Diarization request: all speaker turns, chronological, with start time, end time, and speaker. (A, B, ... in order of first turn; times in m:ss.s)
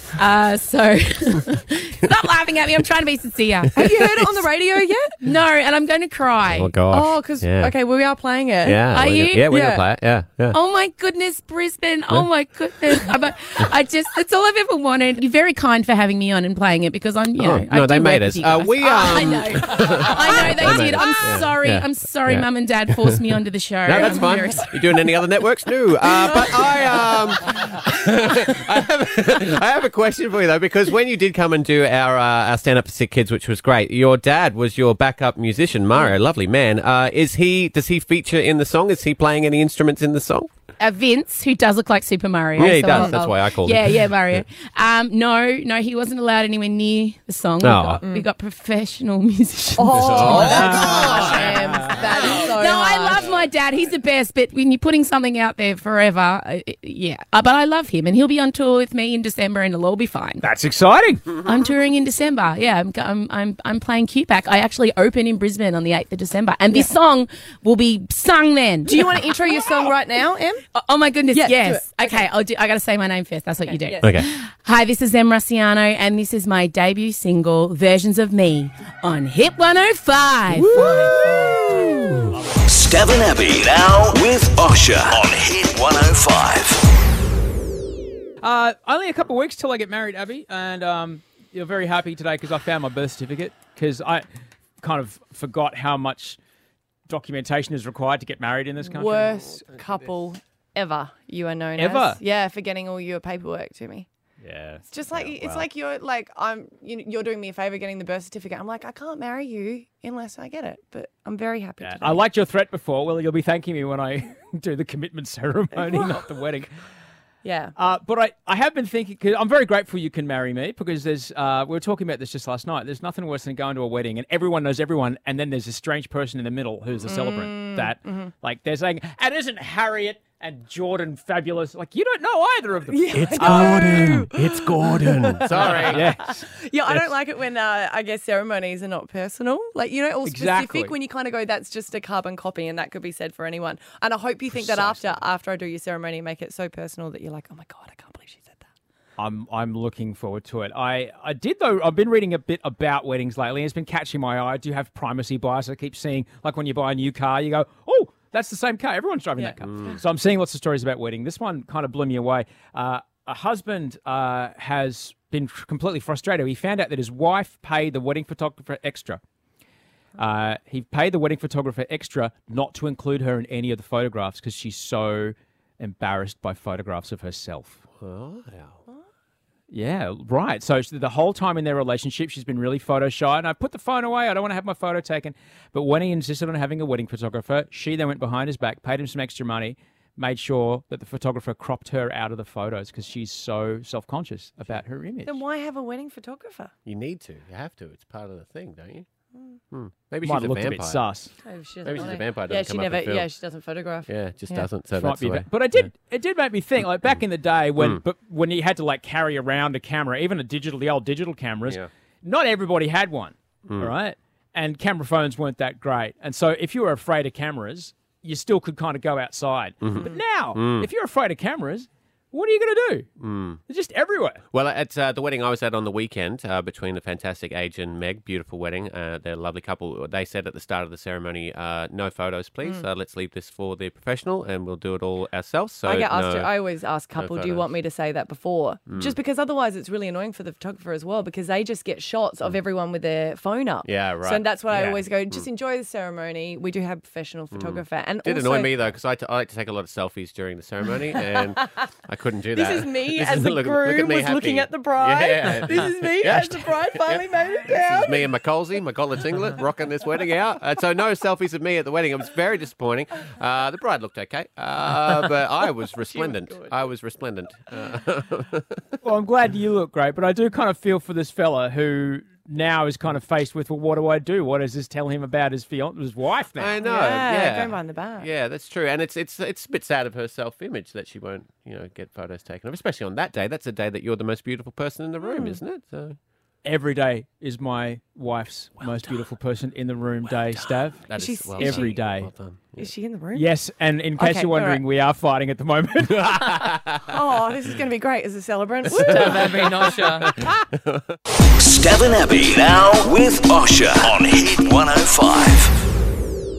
0:00.1-0:04.2 A
0:03.8-0:05.2 B
0:05.2-0:06.8 A
0:06.5-0:07.7 C
0:06.9-0:08.9 B
0:08.6-0:10.6 C
0:08.9-0:09.5 A
0:09.4-0:09.8 B
0:10.5-0:24.7 A
0:17.4-0:23.2 C
0:23.8-0:40.5 C
0:40.8-0:51.0 A
0:42.6-0:44.4 C
0:47.6-0:48.0 C
0:49.8-0:53.3 B
0:49.9-0:51.4 C
0:50.3-0:52.0 D
0:52.2-1:00.4 A
1:00.4-1:01.2 D
1:01.4-1:09.6 A
1:08.8-1:10.6 B
1:10.7-1:21.6 A
1:11.3-1:12.2 B
1:14.0-1:14.3 C
1:20.5-1:22.0 C
1:22.3-1:22.6 D
1:22.6-1:26.8 E
1:28.4-1:34.2 D
1:34.8-1:36.4 D
1:37.1-1:39.5 D
1:38.8-1:44.1 B
1:41.8-1:42.2 D
1:44.4-1:44.8 D
1:44.9-1:52.2 B
1:45.1-1:45.6 C
1:51.8-1:56.7 D
1:57.4-1:57.7 B
1:57.8-2:14.0 D
2:07.1-2:08.3 B
2:12.9-2:28.6 B
2:13.1-2:16.2 C
2:15.5-2:17.1 D
2:20.2-2:20.9 D
2:24.6-2:25.2 D
2:29.2-2:49.2 D
2:39.4-2:40.0 B
2:39.6-2:40.0 C
2:50.2-2:57.8 D
2:58.0-2:58.8 C
2:59.7-3:15.4 D
3:15.2-3:16.7 B
3:16.8-3:19.1 C
3:19.7-3:21.0 C
3:20.2-3:21.3 D
3:21.4-3:24.7 B
3:21.8-3:23.3 C
3:24.0-3:25.9 C
3:25.0-3:43.1 D
3:39.8-3:40.9 C
3:43.2-3:43.6 C
3:43.7-3:44.4 D
3:44.5-3:56.5 C
3:55.8-4:08.9 B
3:57.2-3:57.7 C
3:58.9-3:59.2 C
4:03.8-4:05.4 C
4:07.5-4:28.8 C
4:12.5-4:18.2 B
4:29.0-4:36.8 D
4:36.6-4:46.2 C
4:36.8-4:38.3 B
4:45.2-4:45.6 B
4:46.6-4:52.3 D
4:51.0-4:52.9 C
4:51.1-4:52.0 B
4:52.8-4:53.5 B
4:53.3-4:56.7 D
4:54.2-4:54.8 B
4:56.1-4:57.0 C
4:57.1-5:00.3 B
4:58.9-5:01.1 C
4:59.0-5:00.3 D
5:01.6-5:05.8 E